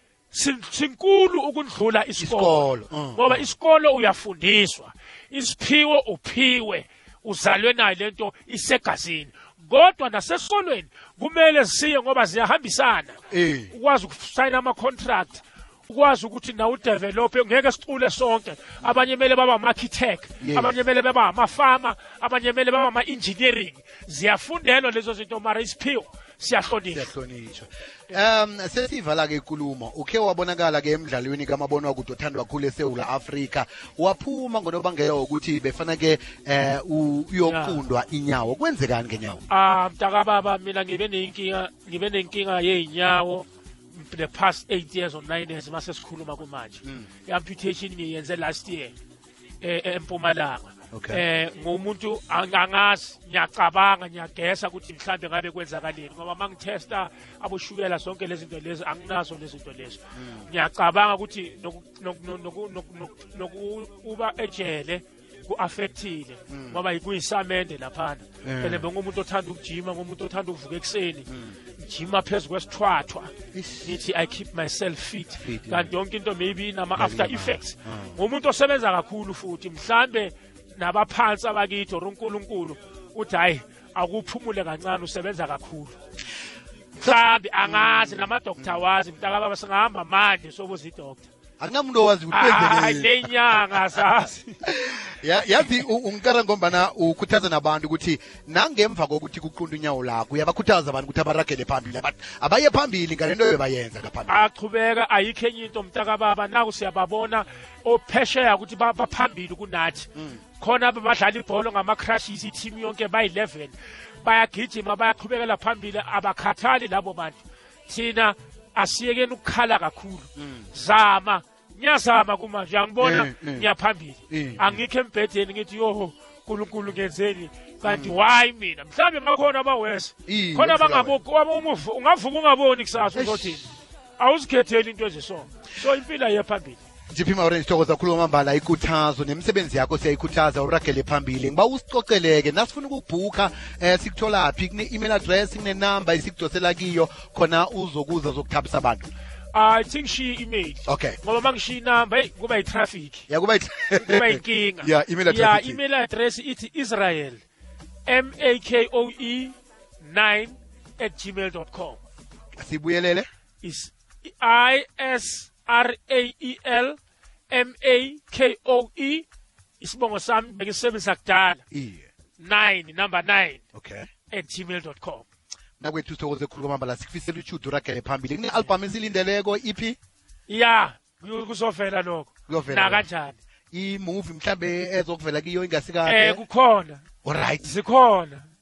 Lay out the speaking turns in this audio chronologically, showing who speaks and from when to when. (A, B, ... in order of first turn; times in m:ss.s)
0:00.3-0:13.2 A
0:02.2-0:03.5 B
0:13.3-0:13.7 B
0:13.7-0:27.1 A
0:20.4-0:20.8 B
0:26.9-0:39.4 B
0:37.5-0:37.8 A
0:39.5-0:48.9 A
0:46.8-0:47.1 B
0:49.6-1:13.3 A
0:50.9-0:51.2 B
1:00.2-1:00.5 B
1:06.5-1:06.8 B
1:08.4-1:08.9 B
1:11.3-1:11.6 B
1:13.5-1:14.0 B
1:13.8-1:26.0 A
1:15.4-1:15.9 B
1:17.0-1:18.2 B
1:27.0-1:28.8 B
1:27.0-1:31.3 A
1:31.6-1:34.0 B
1:32.3-1:34.6 A
1:34.6-1:44.5 B
1:44.3-2:16.8 A
1:50.2-1:50.4 B
2:00.4-2:00.7 B
2:03.0-2:03.7 B
2:04.3-2:04.8 B
2:07.8-2:08.2 B
2:10.3-2:11.2 B
2:13.1-2:13.6 B
2:17.1-2:29.1 B
2:29.5-2:33.3 A
2:30.9-2:31.2 B
2:33.3-2:35.8 B
2:34.0-2:37.4 A
2:38.1-2:42.0 A
2:42.6-2:43.3 B
2:43.6-2:47.0 A
2:47.5-2:49.3 A
2:49.8-2:51.6 A
2:51.7-2:52.1 B
2:52.4-2:53.6 A
2:53.7-2:54.1 B
2:54.3-2:55.3 A
2:55.8-3:00.0 B
3:00.5-3:03.4 A
3:02.5-3:03.1 B
3:03.7-3:06.4 B
3:06.0-3:07.0 A
3:07.2-3:07.8 B
3:07.6-3:08.5 A